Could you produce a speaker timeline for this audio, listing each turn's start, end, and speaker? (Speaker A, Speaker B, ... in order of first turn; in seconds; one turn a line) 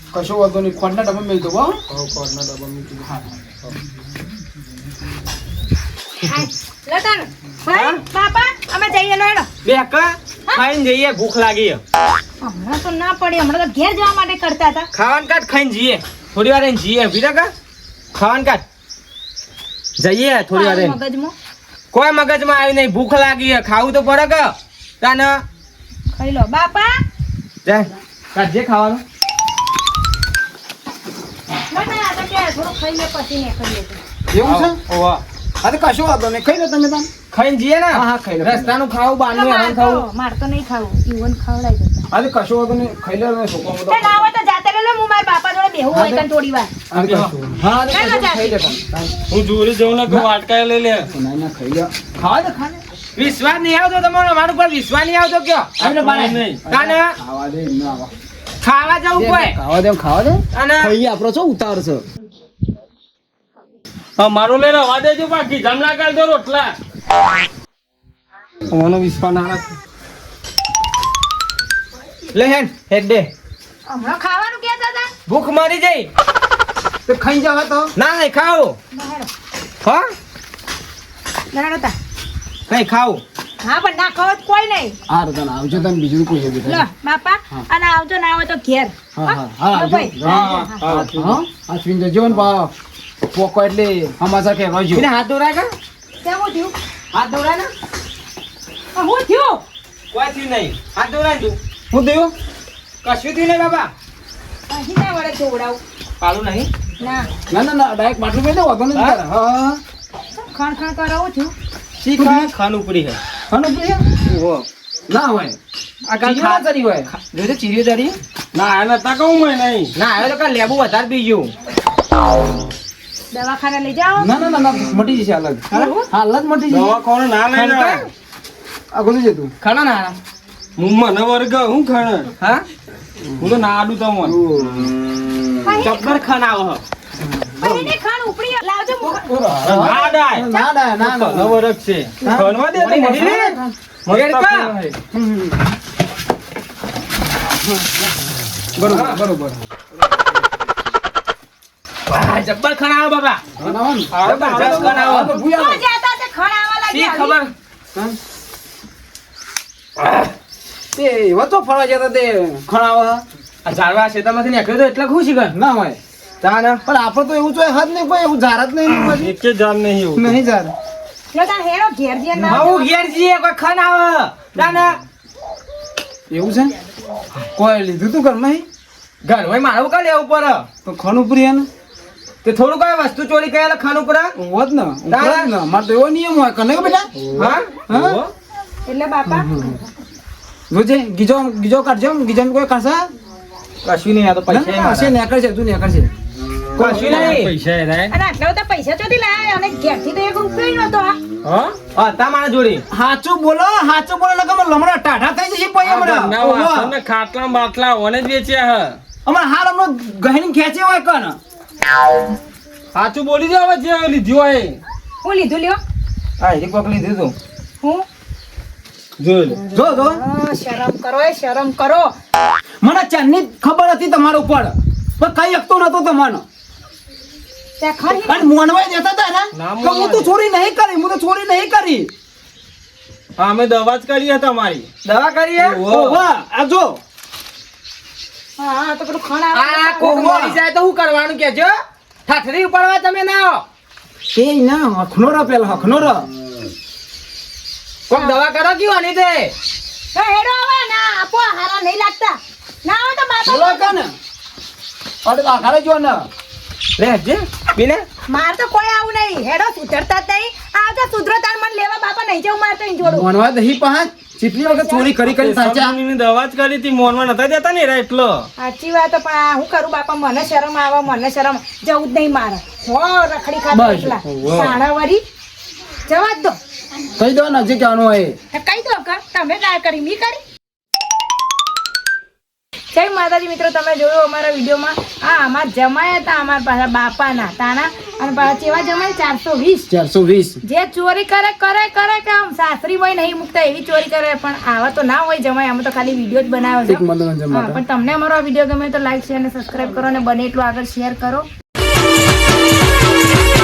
Speaker A: 0.1-1.8
Speaker B: 1.9-3.8
Speaker C: 6.2-9.5
Speaker D: 7.7-8.0
Speaker D: 9.7-11.8
Speaker C: 12.4-14.9
Speaker D: 14.9-17.5
Speaker D: 18.1-18.6
Speaker D: 20.0-21.0
Speaker C: 20.5-21.3
Speaker D: 21.9-25.4
Speaker C: 26.1-27.0
Speaker D: 27.6-29.0
Speaker C: 31.7-34.0
Speaker A: 34.3-34.8
Speaker B: 34.4-35.2
Speaker A: 35.6-37.1
Speaker D: 37.3-40.0
Speaker A: 37.9-38.8
Speaker C: 39.3-42.1
Speaker A: 42.1-44.2
Speaker C: 43.9-46.7
Speaker A: 45.9-46.2
Speaker A: 46.9-49.2
Speaker B: 46.9-47.5
Speaker C: 47.9-48.7
Speaker B: 49.3-51.1
Speaker A: 51.1-52.8
Speaker D: 53.2-55.9
Speaker B: 55.8-56.6
Speaker A: 55.8-58.1
Speaker D: 56.7-57.2
Speaker D: 58.6-59.6
Speaker A: 59.1-62.0
Speaker D: 60.5-60.9
Speaker B: 64.2-66.8
Speaker B: 68.7-69.7
Speaker D: 72.3-73.3
Speaker C: 73.9-75.1
Speaker D: 75.3-76.1
Speaker A: 77.1-77.9
Speaker D: 78.0-78.8
Speaker C: 78.9-79.3
Speaker D: 79.8-80.1
Speaker C: 81.5-82.0
Speaker D: 82.7-83.2
Speaker C: 83.6-85.0
Speaker A: 85.1-86.9
Speaker C: 86.7-90.8
Speaker A: 89.2-92.7
Speaker D: 90.2-91.1
Speaker B: 90.8-91.4
Speaker A: 93.3-95.1
Speaker D: 94.9-95.7
Speaker C: 96.2-96.8
Speaker D: 97.1-97.7
Speaker C: 99.0-99.6
Speaker D: 100.1-101.6
Speaker A: 101.9-102.3
Speaker D: 103.0-103.9
Speaker C: 104.7-105.8
Speaker D: 106.2-106.7
Speaker C: 107.0-107.3
Speaker A: 107.5-109.8
Speaker D: 108.9-109.2
Speaker C: 110.3-111.5
Speaker D: 112.0-113.2
Speaker A: 112.2-112.5
Speaker A: 113.5-114.0
Speaker D: 114.3-114.7
Speaker A: 115.1-115.6
Speaker D: 116.1-118.2
Speaker A: 116.1-117.1
Speaker B: 118.5-119.9
Speaker D: 120.0-121.5
Speaker C: 123.3-124.3
Speaker A: 124.2-127.0
Speaker C: 125.7-126.0
Speaker D: 125.7-126.0
Speaker B: 126.7-128.1
Speaker D: 127.5-128.1
Speaker A: 128.9-129.5
Speaker D: 129.6-130.2
Speaker B: 130.8-132.3
Speaker D: 132.4-132.7
Speaker B: 133.4-134.4
Speaker A: 134.2-134.9
Speaker C: 135.6-136.2
Speaker D: 135.8-136.8
Speaker A: 137.2-137.9
Speaker C: 137.6-139.3
Speaker A: 139.1-141.6
Speaker B: 139.6-145.0
Speaker D: 139.7-140.0
Speaker A: 142.2-142.5
Speaker D: 142.7-143.6
Speaker A: 143.2-143.7
Speaker D: 144.1-144.7
Speaker A: 145.1-145.8
Speaker A: 147.7-148.1
Speaker A: 148.8-149.6
Speaker D: 148.9-149.2
Speaker D: 152.1-153.5
Speaker A: 153.6-155.8
Speaker B: 153.6-155.3
Speaker D: 154.3-155.4
Speaker C: 155.1-157.4
Speaker D: 156.9-157.5
Speaker A: 160.9-163.2
Speaker D: 163.7-165.6
Speaker A: 165.5-166.0
Speaker D: 166.4-166.8
Speaker A: 166.9-169.3
Speaker B: 169.0-170.4
Speaker A: 170.2-170.7
Speaker C: 171.3-172.9
Speaker A: 172.4-172.7
Speaker D: 172.5-175.0
Speaker A: 176.3-176.7
Speaker A: 177.6-178.7
Speaker D: 179.2-180.7
Speaker A: 180.8-181.7
Speaker D: 182.4-184.4
Speaker A: 184.4-188.2
Speaker D: 185.1-185.5
Speaker D: 187.3-188.3
Speaker C: 188.9-189.9
Speaker A: 189.3-189.8
Speaker A: 190.7-193.1
Speaker D: 193.8-195.2
Speaker A: 194.5-196.1
Speaker A: 196.8-197.4
Speaker D: 196.8-197.5
Speaker B: 196.8-198.1
Speaker C: 198.1-201.2
Speaker D: 201.4-202.8
Speaker A: 202.9-206.9
Speaker B: 205.8-209.0
Speaker A: 209.3-211.4
Speaker B: 212.9-214.8
Speaker C: 215.2-215.8
Speaker A: 216.4-216.7
Speaker D: 216.7-217.1
Speaker B: 219.2-219.6
Speaker C: 219.5-222.1
Speaker A: 219.7-220.2
Speaker A: 222.8-226.4
Speaker C: 227.8-228.5
Speaker A: 228.1-232.1
Speaker B: 229.5-230.3
Speaker B: 233.4-234.9
Speaker D: 235.0-236.2
Speaker A: 235.6-237.0
Speaker C: 238.6-240.3
Speaker D: 239.5-241.8
Speaker A: 240.0-240.6
Speaker D: 242.3-243.7
Speaker A: 244.3-246.3
Speaker D: 248.1-249.5
Speaker C: 250.2-254.0
Speaker A: 253.4-254.1
Speaker A: 255.2-256.3
Speaker D: 257.0-258.1
Speaker C: 258.3-263.3
Speaker A: 263.0-266.0
Speaker C: 264.6-265.2
Speaker B: 265.1-268.5
Speaker C: 268.6-275.2
Speaker A: 273.7-274.2
Speaker B: 274.2-274.8
Speaker C: 276.1-276.6
Speaker A: 277.2-278.4
Speaker C: 278.5-280.4
Speaker C: 282.9-289.9
Speaker A: 289.9-290.6
Speaker C: 290.6-301.5
Speaker A: 296.9-297.8